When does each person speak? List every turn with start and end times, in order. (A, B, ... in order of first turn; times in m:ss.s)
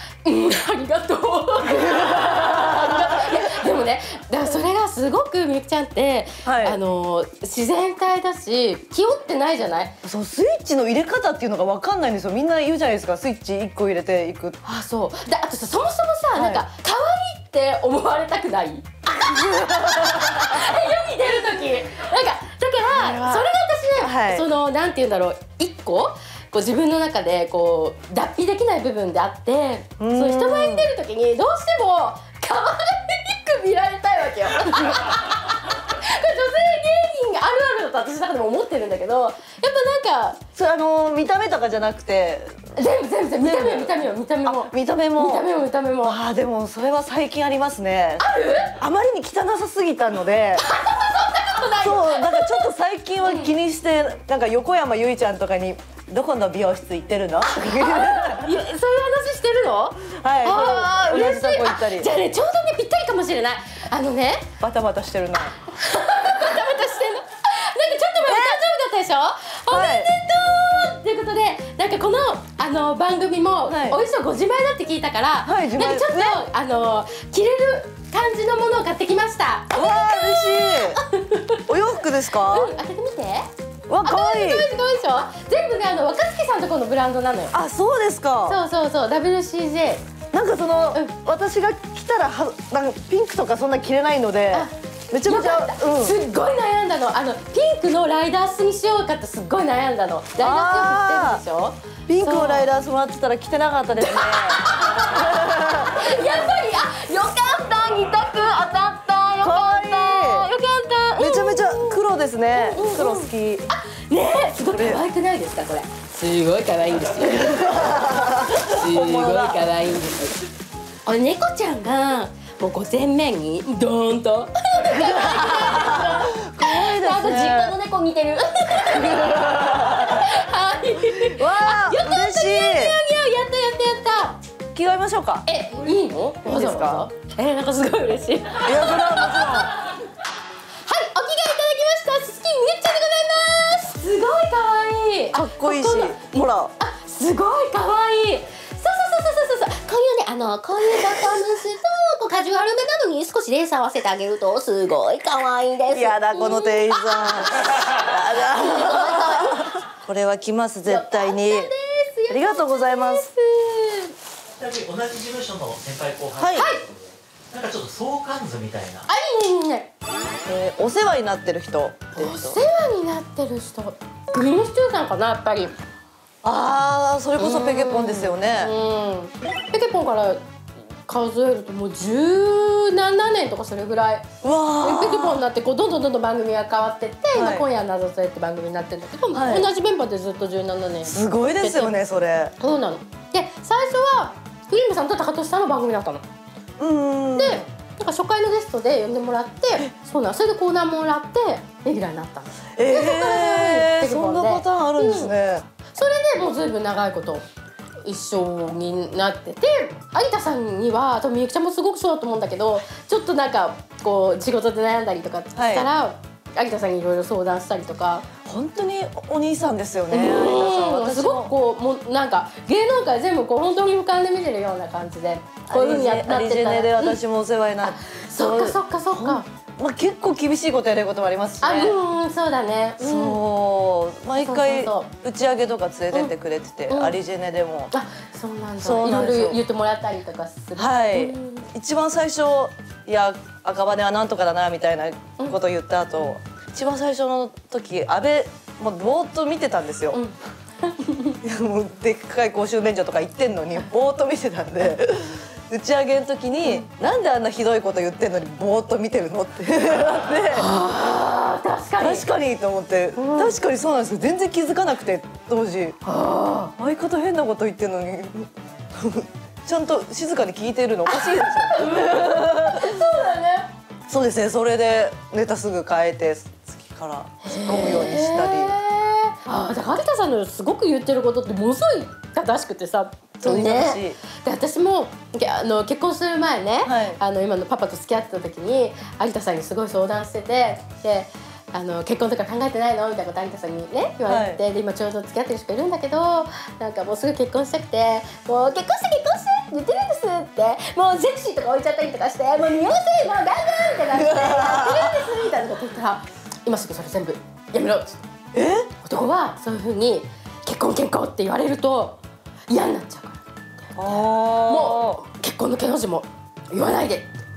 0:00.2-0:10.0 A
0:01.7-0:03.0 B
0:06.4-0:06.8 B
0:10.0-0:14.6 B
0:14.6-0:40.4 A
0:16.3-0:16.6 B
0:19.3-0:20.7 B
0:22.9-0:24.5 B
0:30.0-0:30.9 B
0:40.6-0:42.7 B
0:42.8-0:46.2 A
0:43.4-0:45.5 B
0:46.0-0:50.7 B
0:48.2-0:48.8 A
0:50.6-0:52.7 A
0:51.8-0:58.6 B
0:53.2-0:53.5 A
0:57.6-1:04.5 A
1:00.1-1:02.1 B
1:04.6-1:05.6 B
1:05.7-1:21.6 A
1:08.2-1:08.6 B
1:09.7-1:10.1 B
1:13.7-1:14.0 B
1:15.4-1:16.4 B
1:19.7-1:21.0 B
1:21.7-1:22.7 B
1:22.4-1:23.5 A
1:23.9-1:24.7 B
1:24.0-1:27.5 A
1:27.5-1:28.6 B
1:28.5-1:30.0 A
1:30.3-1:36.2 B
1:34.5-1:42.7 A
1:40.4-1:41.4 B
1:42.1-1:46.2 B
1:44.0-1:52.0 A
1:49.4-1:50.5 B
1:51.2-1:53.7 B
1:52.5-2:00.4 A
1:54.7-1:55.0 B
1:57.2-1:59.7 B
2:01.1-2:14.4 A
2:04.8-2:07.8 B
2:08.9-2:10.3 B
2:11.0-2:13.0 B
2:14.7-2:15.5 B
2:15.5-2:19.9 A
2:16.4-2:17.1 B
2:18.6-2:19.7 B
2:20.8-2:26.2 A
2:25.3-2:26.7 B
2:26.8-2:39.7 A
2:35.9-2:41.7 B
2:40.9-2:44.1 A
2:42.3-2:43.3 B
2:44.6-2:49.1 C
2:46.4-2:46.7 B
2:46.5-2:46.8 A
2:49.1-2:49.9 A
2:50.5-2:52.6 B
2:52.2-2:55.8 A
2:56.4-2:58.8 B
2:57.4-3:00.4 A
3:01.1-3:04.3 A
3:04.4-3:05.4 B
3:04.8-3:12.0 A
3:07.4-3:07.7 B
3:09.3-3:09.7 B
3:11.1-3:12.5 B
3:12.6-3:16.2 A
3:16.8-3:17.6 B
3:17.4-3:25.3 A
3:22.8-3:25.6 B
3:25.9-3:27.4 A
3:28.0-3:38.3 A
3:35.6-3:35.9 B
3:38.4-3:41.5 B
3:40.1-3:47.2 A
3:45.7-3:52.0 B
3:47.8-3:49.5 A
3:51.6-3:53.4 A
3:53.0-3:57.9 B
3:54.4-3:55.1 A
3:56.9-3:57.2 A
3:57.9-4:01.7 A
3:58.8-3:59.6 B
4:00.8-4:10.2 B
4:10.1-4:11.4 A
4:11.4-4:20.7 B
4:20.5-4:22.3 A
4:22.0-4:26.0 B
4:23.2-4:23.6 A
4:26.0-4:26.7 A
4:26.8-4:33.0 B
4:31.1-4:33.7 A
4:34.1-4:38.8 B
4:37.4-5:08.2 A
4:43.4-4:44.2 B
4:46.8-4:47.2 B
4:54.3-4:54.6 B
5:04.1-5:05.2 B
5:08.5-5:08.9 B
5:09.0-5:13.4 A
5:14.0-5:15.2 B
5:14.0-5:17.3 A